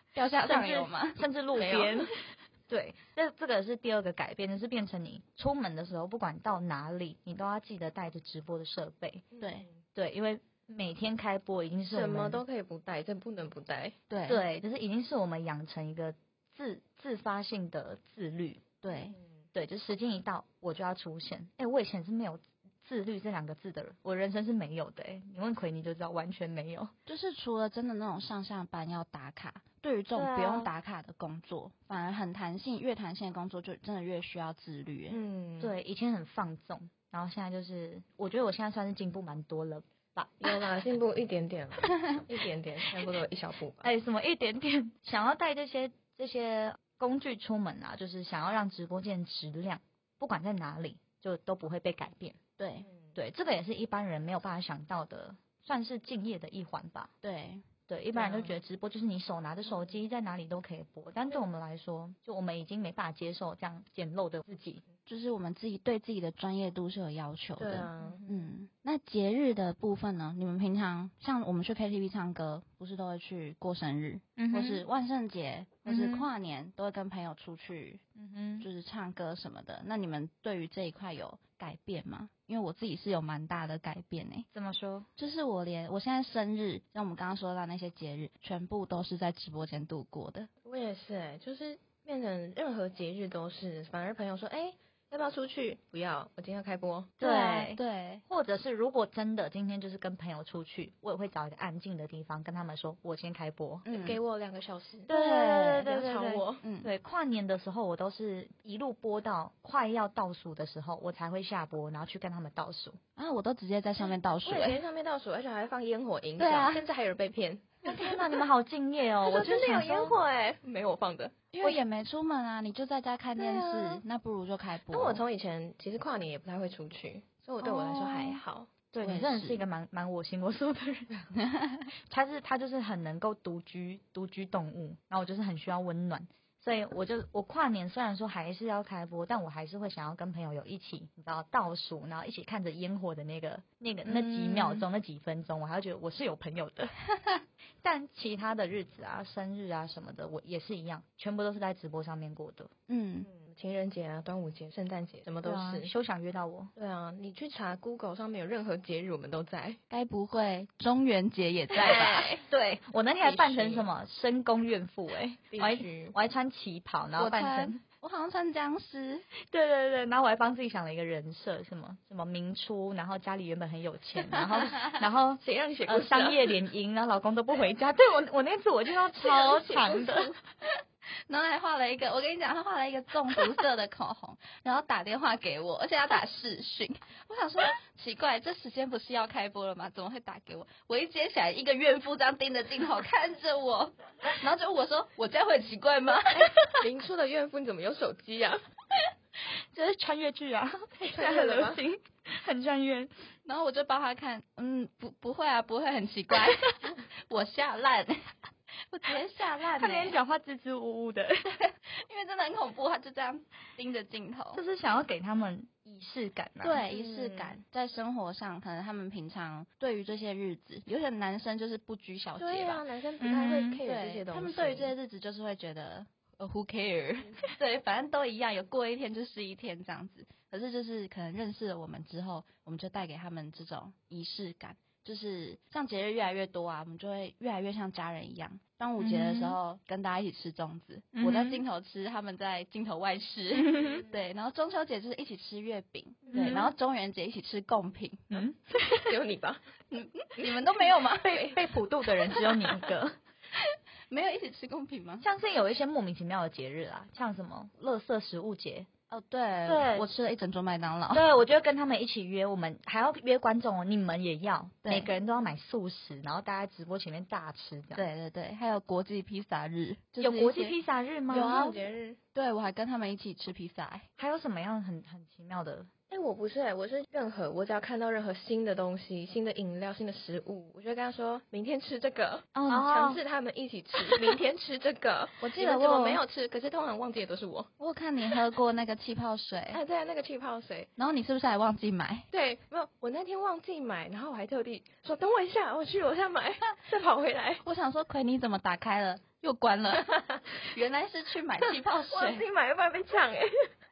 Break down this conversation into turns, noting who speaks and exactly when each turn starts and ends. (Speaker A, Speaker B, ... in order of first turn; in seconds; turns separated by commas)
Speaker A: 0.1-1.3, Speaker B: 0.4-9.3, Speaker C: 1.6-2.1, Speaker C: 9.3-9.8, Speaker A: 9.4-9.7, Speaker B: 9.9-12.4, Speaker C: 11.9-13.9, Speaker A: 14.1-14.4, Speaker B: 14.3-18.6, Speaker A: 18.8-19.2, Speaker C: 18.9-19.4, Speaker B: 19.5-26.9, Speaker A: 27.1-35.2, Speaker B: 30.1-30.7, Speaker C: 35.1-35.8, Speaker B: 35.6-40.6, Speaker C: 40.4-43.9, Speaker B: 43.8-52.4, Speaker A: 52.6-52.9, Speaker C: 52.9-53.2, Speaker B: 53.2-57.1, Speaker A: 57.2-57.6, Speaker B: 57.9-64.8, Speaker C: 58.1-58.6, Speaker A: 65.1-78.0, Speaker C: 67.6-68.5, Speaker B: 74.4-74.9, Speaker B: 75.9-76.3, Speaker B: 78.2-78.7, Speaker A: 78.6-84.5, Speaker B: 84.5-85.1, Speaker A: 85.2-90.5, Speaker C: 90.6-97.1, Speaker B: 97.2-103.9, Speaker A: 97.2-98.2, Speaker A: 103.8-104.2, Speaker C: 103.9-105.1, Speaker B: 105.1-113.0, Speaker A: 105.1-105.9, Speaker C: 105.8-106.6, Speaker A: 106.6-106.9, Speaker A: 113.2-114.8, Speaker C: 114.0-118.3, Speaker A: 116.4-116.8, Speaker B: 117.8-120.2, Speaker C: 119.3-121.8, Speaker A: 121.5-125.2, Speaker C: 123.4-124.0, Speaker C: 124.9-128.7, Speaker B: 127.6-128.3, Speaker B: 128.9-131.3, Speaker A: 129.0-129.6, Speaker B: 132.1-146.9, Speaker A: 144.1-144.9, Speaker B: 147.8-152.7, Speaker A: 152.9-153.3, Speaker C: 153.2-155.9, Speaker B: 155.4-156.7, Speaker C: 156.8-159.8, Speaker A: 159.9-162.3, Speaker C: 161.8-162.5, Speaker B: 162.5-167.8, Speaker C: 163.2-163.9, Speaker C: 165.5-166.2, Speaker A: 167.2-169.2, Speaker B: 169.5-180.3, Speaker C: 175.4-176.6, Speaker A: 179.2-180.3, Speaker A: 181.3-196.5, Speaker C: 196.3-198.6, Speaker B: 199.7-203.1, Speaker C: 201.0-201.8, Speaker A: 203.4-208.2, Speaker A: 208.9-210.2, Speaker B: 209.8-211.5, Speaker A: 211.8-214.6, Speaker B: 214.5-216.8, Speaker A: 216.6-222.8, Speaker C: 216.9-217.6, Speaker C: 222.4-224.9, Speaker B: 223.2-223.8, Speaker A: 223.8-248.4, Speaker B: 239.0-239.6, Speaker B: 241.1-241.6, Speaker B: 243.6-244.0, Speaker C: 246.3-246.6, Speaker B: 246.3-246.7, Speaker B: 248.3-249.1, Speaker C: 249.0-249.6, Speaker A: 249.9-251.4, Speaker C: 251.2-251.6, Speaker B: 251.2-253.2, Speaker A: 254.1-255.2, Speaker B: 255.2-258.9, Speaker A: 259.1-261.2, Speaker B: 259.6-260.1, Speaker B: 261.1-268.1, Speaker A: 264.8-265.1, Speaker A: 267.9-270.8, Speaker B: 270.2-271.6, Speaker A: 271.3-271.8, Speaker C: 271.3-272.2, Speaker A: 272.3-274.1, Speaker B: 274.2-275.9, Speaker C: 276.1-287.7, Speaker B: 282.6-283.2, Speaker A: 285.4-286.2, Speaker A: 287.8-289.8, Speaker C: 289.7-290.9, Speaker A: 291.0-292.3, Speaker C: 292.3-297.6, Speaker A: 297.6-302.4, Speaker C: 302.1-303.7